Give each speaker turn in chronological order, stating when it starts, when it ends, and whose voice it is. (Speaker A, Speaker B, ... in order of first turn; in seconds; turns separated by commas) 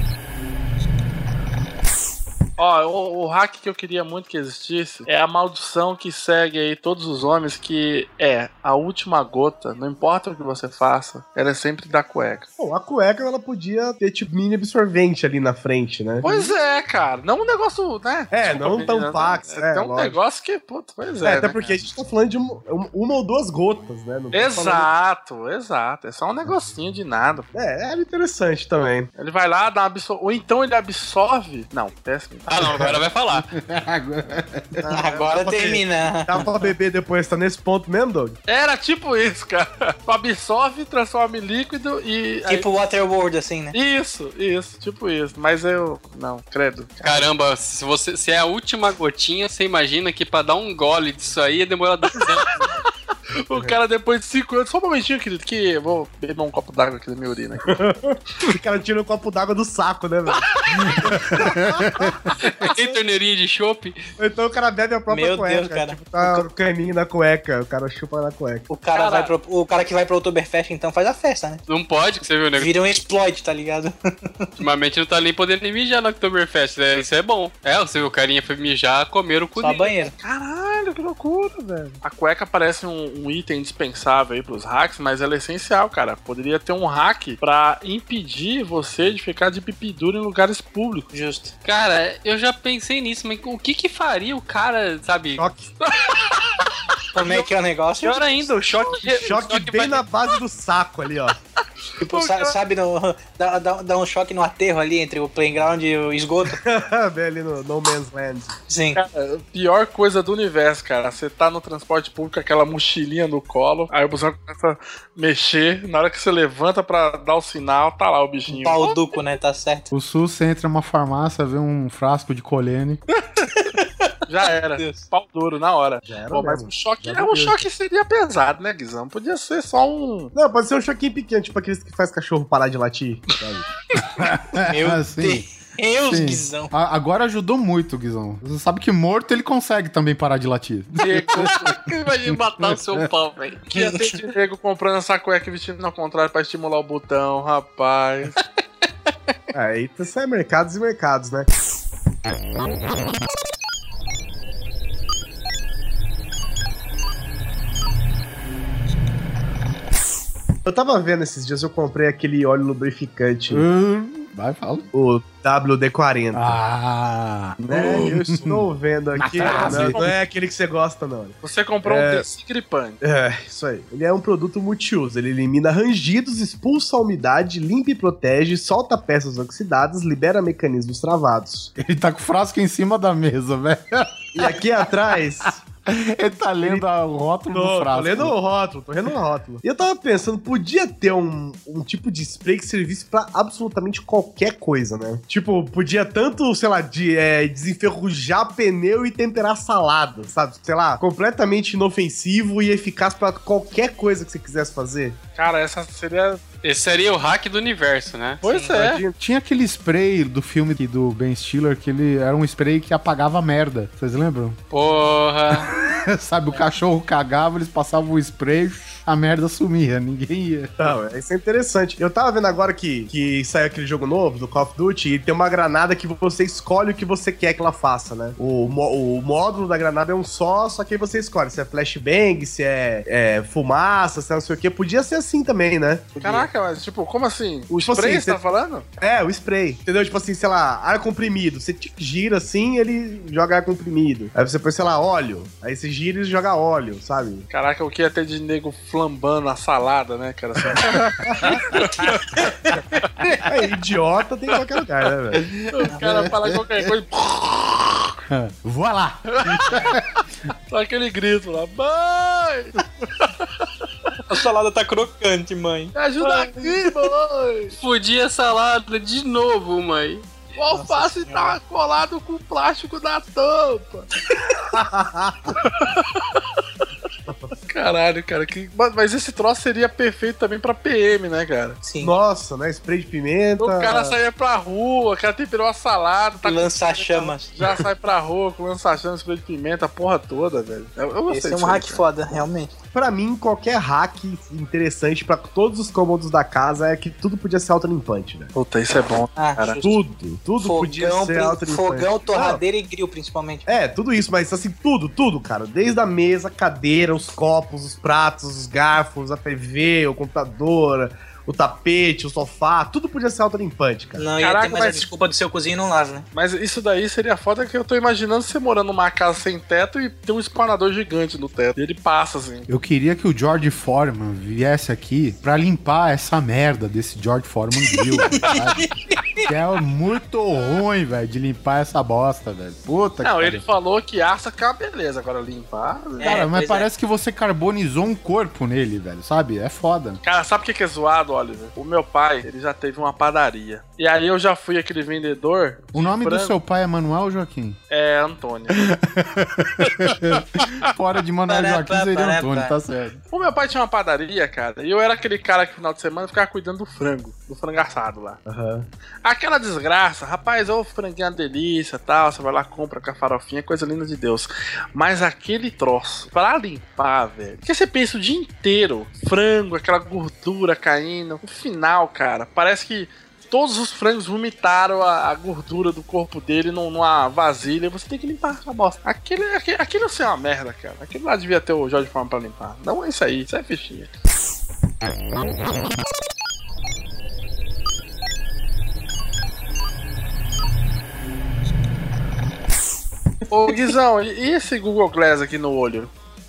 Speaker A: 2.6-12.5, Speaker B: 12.6-16.5, Speaker A: 16.2-21.9, Speaker B: 18.3-20.2, Speaker B: 21.2-24.9, Speaker A: 24.3-27.5, Speaker B: 27.5-29.1, Speaker A: 29.2-32.9, Speaker C: 32.5-33.5, Speaker D: 33.3-34.8, Speaker E: 34.9-36.3, Speaker B: 35.2-38.4, Speaker A: 38.5-42.7, Speaker E: 42.5-43.8, Speaker A: 43.7-47.3, Speaker C: 47.0-52.6, Speaker A: 53.4-57.8, Speaker B: 57.7-63.0, Speaker A: 60.3-61.1, Speaker D: 61.2-62.2, Speaker C: 62.4-64.0, Speaker B: 64.2-68.7, Speaker E: 65.1-66.4, Speaker E: 68.7-71.6, Speaker C: 69.0-69.3, Speaker C: 71.7-72.7, Speaker E: 72.6-74.5, Speaker C: 74.6-79.9, Speaker E: 79.6-80.1, Speaker A: 80.2-91.1, Speaker E: 91.1-91.5, Speaker C: 91.6-95.5, Speaker B: 95.4-95.7, Speaker A: 95.8-96.7, Speaker E: 97.1-98.2, Speaker C: 97.2-97.5, Speaker C: 98.0-100.1, Speaker B: 99.0-101.4, Speaker E: 102.0-106.6, Speaker A: 102.1-102.5, Speaker B: 106.6-108.6, Speaker E: 108.7-109.0, Speaker A: 109.0-119.0, Speaker E: 118.5-119.9, Speaker D: 119.9-123.0, Speaker E: 123.6-124.1, Speaker A: 124.3-130.3, Speaker E: 124.8-125.0, Speaker B: 126.1-127.6, Speaker B: 130.3-133.7, Speaker D: 134.2-135.5, Speaker E: 134.7-136.7, Speaker D: 136.1-141.7, Speaker A: 141.0-141.8, Speaker C: 141.7-143.7, Speaker D: 142.3-143.1, Speaker A: 143.7-148.4, Speaker E: 143.7-144.2, Speaker B: 149.5-151.5, Speaker B: 160.7-163.7, Speaker D: 163.5-164.9, Speaker B: 164.9-166.6, Speaker D: 166.3-170.1, Speaker B: 167.6-172.2, Speaker A: 169.4-170.0, Speaker A: 171.4-173.0, Speaker B: 173.0-181.7, Speaker D: 181.8-184.8, Speaker B: 184.4-185.6, Speaker D: 185.9-188.4, Speaker B: 187.5-205.2, Speaker A: 205.4-206.4, Speaker C: 206.6-208.4, Speaker A: 208.4-209.0, Speaker B: 208.7-209.1, Speaker D: 209.2-214.6, Speaker C: 214.7-215.7, Speaker D: 215.6-220.9, Speaker B: 220.8-236.5, Speaker A: 236.2-238.8, Speaker B: 237.7-238.4, Speaker B: 239.0-247.5, Speaker A: 247.5-253.0, Speaker D: 250.8-251.8, Speaker B: 251.2-251.6, Speaker D: 253.2-253.6, Speaker B: 253.5-255.5, Speaker D: 255.4-256.9, Speaker A: 255.7-258.2, Speaker D: 258.3-260.2, Speaker A: 259.3-259.6, Speaker A: 260.7-263.7, Speaker E: 264.3-265.9, Speaker A: 265.9-267.8, Speaker C: 267.8-270.3, Speaker A: 270.6-274.1, Speaker E: 270.7-271.6, Speaker B: 274.7-275.6, Speaker A: 275.6-276.4, Speaker A: 277.7-281.8, Speaker E: 281.8-282.1, Speaker B: 282.0-284.2, Speaker A: 283.6-292.0, Speaker E: 286.4-287.5, Speaker E: 291.3-292.7, Speaker B: 292.9-298.5, Speaker A: 298.5-299.8, Speaker E: 299.4-300.0, Speaker B: 299.8-302.6, Speaker E: 300.6-303.7, Speaker B: 303.7-314.3, Speaker E: 314.2-316.3, Speaker A: 314.4-315.1, Speaker A: 316.3-322.7, Speaker D: 322.7-333.6, Speaker E: 328.4-329.4, Speaker A: 333.2-336.4, Speaker E: 336.2-336.9, Speaker D: 336.2-340.2, Speaker A: 340.2-346.6, Speaker D: 345.9-347.8, Speaker A: 347.9-348.9, Speaker D: 348.8-353.2, Speaker A: 349.8-350.7, Speaker E: 351.5-352.8, Speaker A: 353.3-358.4, Speaker B: 358.5-358.9, Speaker A: 359.2-384.1, Speaker A: 393.5-396.1